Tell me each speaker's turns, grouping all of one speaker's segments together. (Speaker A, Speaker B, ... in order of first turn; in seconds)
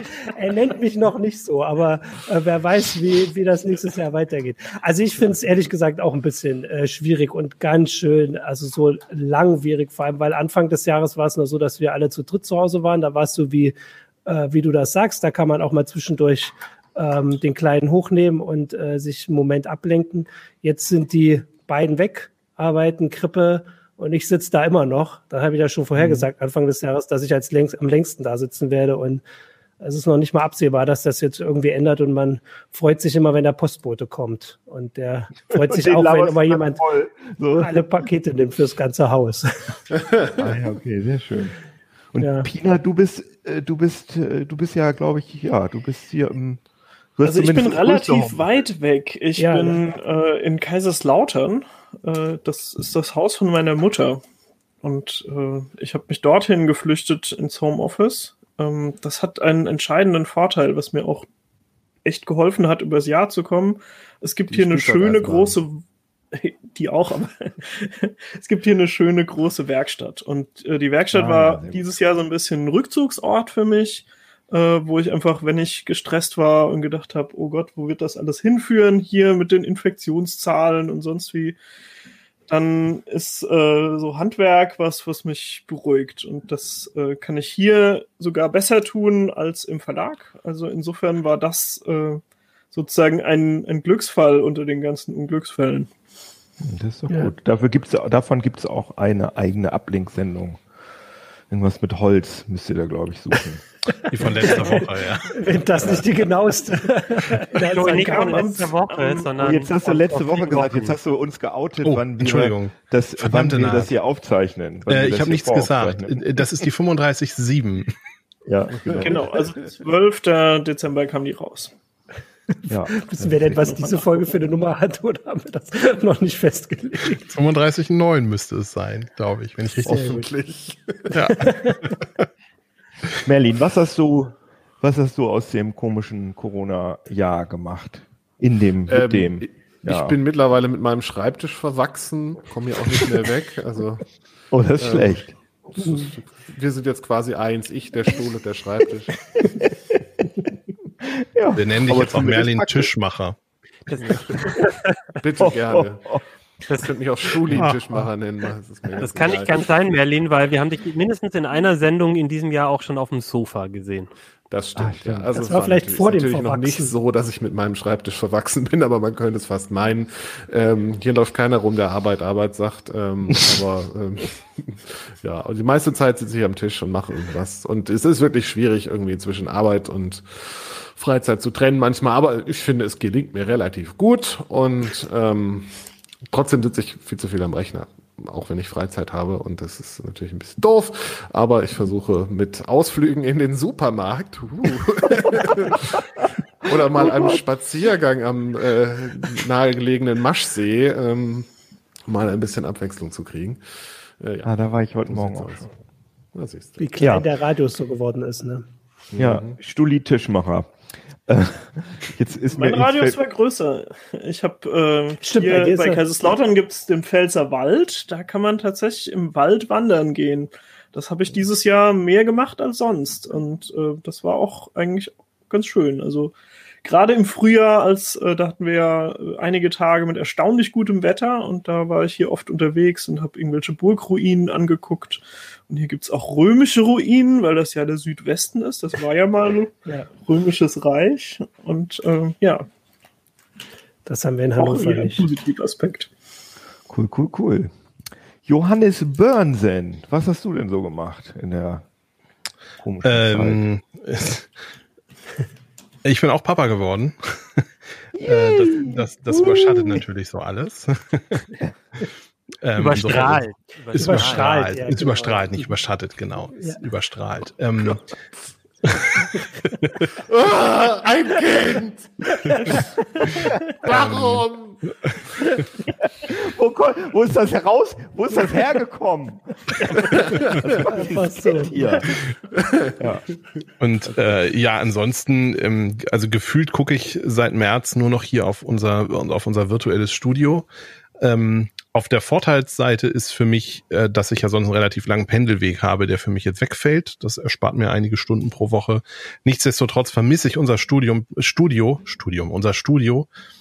Speaker A: 0.2-13.7, 14.2-29.2, 29.8-36.8, 37.6-39.8, 42.2-42.5, 49.4-49.8, 104.2-104.8, 105.3-108.6, 122.9-127.3, 129.9-130.2, 131.4-131.8, 145.8-146.1, 165.3-166.9, 206.8-208.6, 215.2-216.0, 244.1-245.3, 259.4-259.8, 264.0-265.7, 272.5-273.4, 280.8-282.2
Speaker B: 35.5-37.8, 40.4-41.5, 42.1-46.6, 47.2-48.4, 71.1-71.8, 96.6-100.6, 101.5-103.6, 109.4-116.2, 118.5-119.4, 122.7-122.9, 133.2-140.1, 144.5-145.3, 151.1-152.9, 155.4-156.2, 164.8-165.3, 204.4-205.7, 207.0-207.2, 209.2-210.7, 211.3-213.2, 246.9-247.7, 248.4-251.8, 252.8-253.7, 258.2-259.0, 276.2-282.1, 283.0-283.2
Speaker C: 47.2-54.2, 54.8-61.3, 62.0-81.6, 82.5-92.2, 92.7-95.9, 107.7-109.3, 119.0-121.7, 123.6-124.2, 212.5-242.7, 244.6-246.1
Speaker D: 64.5-65.6, 118.8-119.2, 129.8-131.4, 138.9-144.1, 144.8-145.2, 145.7-149.2, 154.0-154.6, 155.1-156.2, 156.7-159.7, 164.5-196.0, 196.6-201.5, 202.0-203.6, 204.2-205.7, 206.3-206.9, 209.1-209.6, 270.2-272.7, 273.8-274.8
Speaker E: 104.1-105.3, 111.8-113.9, 114.9-117.9, 127.3-130.2, 131.1-132.0, 151.6-153.4, 157.5-157.8, 253.0-254.5, 256.0-257.6, 258.2-261.4, 262.6-268.1, 268.9-270.1, 273.9-274.4, 283.8-290.7, 291.2-303.3
Speaker F: 107.6-110.9, 153.9-154.1, 159.0-164.1, 262.8-265.0